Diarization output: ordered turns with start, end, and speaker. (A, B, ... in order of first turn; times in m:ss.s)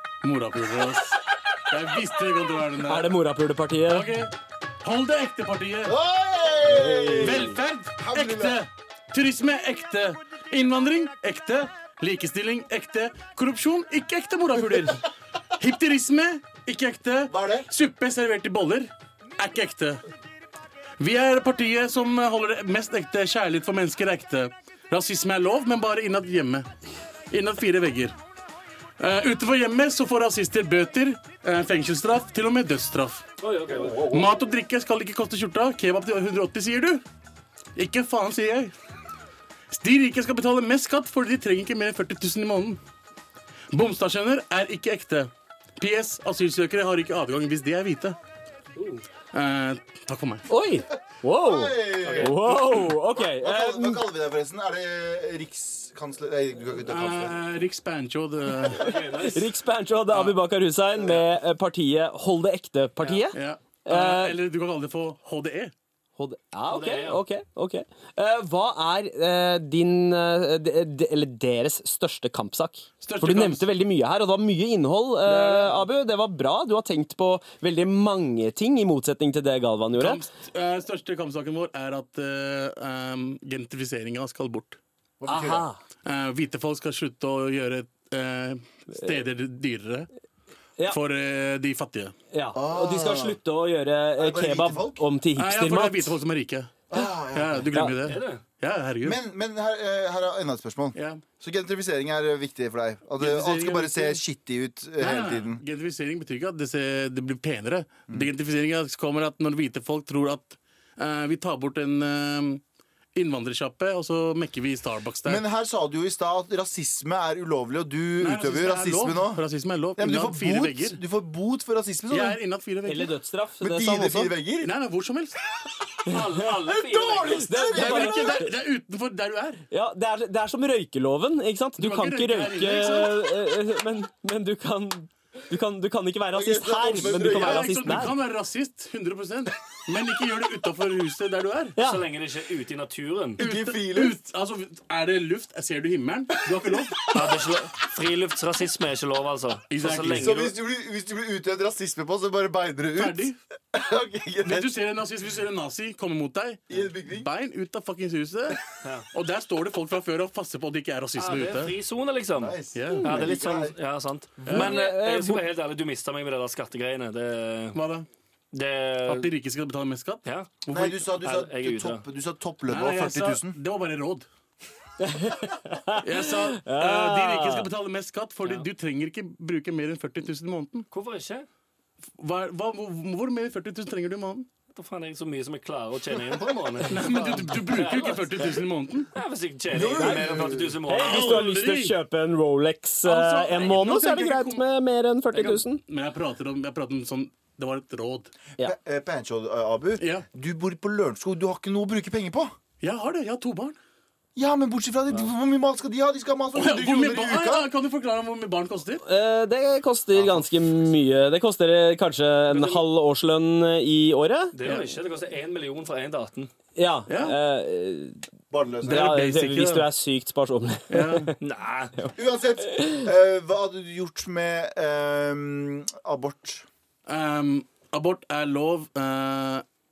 0:00.2-0:03.2 A
0:02.8-0:04.1 B
0:03.9-0:06.0 A
0:05.8-0:08.6 C
0:06.6-0:07.6 B
0:07.2-0:20.0 A
0:17.3-0:17.7 C
0:21.0-0:26.7 A
0:27.3-0:28.1 A
0:29.0-0:33.2 A
0:33.4-0:34.2 D
0:34.1-0:37.0 A
0:37.8-0:38.7 A
0:39.7-0:42.8 A
0:43.7-0:48.2 A
0:48.8-0:49.0 D
0:49.3-0:50.5 A
0:50.5-0:54.0 B
0:50.9-0:57.4 C
0:52.0-0:52.3 D
0:56.8-0:58.9 A
0:58.7-0:59.5 D
0:58.9-1:04.4 B
1:00.1-1:00.4 A
1:03.3-1:05.7 A
1:06.2-1:20.2 B
1:06.7-1:07.2 D
1:13.0-1:13.6 A
1:15.2-1:15.9 A
1:19.9-1:24.8 A
1:25.2-1:25.7 C
1:25.3-1:25.8 B
1:26.0-1:30.1 A
1:30.9-1:32.1 A
1:32.3-1:36.1 B
1:32.5-1:33.4 C
1:34.2-1:35.1 C
1:35.4-1:39.2 A
1:36.9-1:37.8 C
1:38.0-1:38.4 D
1:39.0-1:45.6 C
1:41.0-1:41.2 A
1:43.2-1:44.2 A
1:45.0-1:52.6 A
1:53.1-1:55.4 A
1:55.2-1:59.4 C
1:58.2-2:01.0 A
2:00.0-2:02.4 C
2:02.1-2:03.1 A
2:02.8-2:04.3 B
2:03.6-2:04.7 C
2:04.6-2:05.4 A
2:06.1-2:07.7 D
2:06.6-2:08.4 C
2:07.5-2:08.5 B
2:07.7-2:09.6 A
2:09.7-2:18.1 B
2:11.8-2:13.2 A
2:16.3-2:18.1 C
2:16.9-2:21.8 A
2:21.8-2:22.0 B
2:21.8-2:23.4 D
2:23.4-2:24.2 C
2:23.4-2:27.1 A
2:26.5-2:27.4 C
2:27.1-2:30.5 D
2:29.7-2:30.4 A
2:30.1-2:34.8 C
2:33.0-2:33.4 A
2:34.4-2:38.6 A
2:36.7-2:37.3 C
2:39.1-2:41.7 A
2:41.2-2:47.8 D
2:42.4-2:43.8 C
2:42.8-2:43.1 A
2:44.5-2:44.7 A
2:44.5-2:45.4 B
2:47.8-2:48.1 A
2:48.5-2:49.3 D
2:49.1-2:51.0 A
2:50.2-2:50.6 D
2:50.7-2:53.6 C
2:51.2-2:52.0 D
2:52.7-2:54.3 A
2:55.0-2:57.7 B
2:56.0-3:00.9 A
3:00.9-3:01.5 D
3:02.2-3:04.5 A
3:04.8-3:08.6 D
3:06.9-3:09.1 A
3:09.1-3:11.5 D
3:09.7-3:10.8 C
3:10.0-3:15.8 B
3:11.0-3:12.0 A
3:13.0-3:14.6 A
3:15.3-3:15.6 D
3:15.8-3:18.3 A
3:18.6-3:22.5 C
3:20.0-3:20.2 A
3:22.8-3:23.8 A
3:24.4-3:27.7 C
3:26.6-3:29.0 A
3:29.0-3:34.6 B
3:30.1-3:30.5 C
3:32.5-3:32.8 D
3:34.5-3:36.5 D
3:34.6-3:34.9 A
3:36.8-3:38.2 B
3:37.1-3:37.4 A
3:38.5-3:39.2 C
3:38.8-3:41.4 B
3:38.9-3:39.9 A
3:40.9-3:41.3 A
3:41.4-3:41.9 D
3:42.1-3:46.6 C
3:47.1-3:49.6 A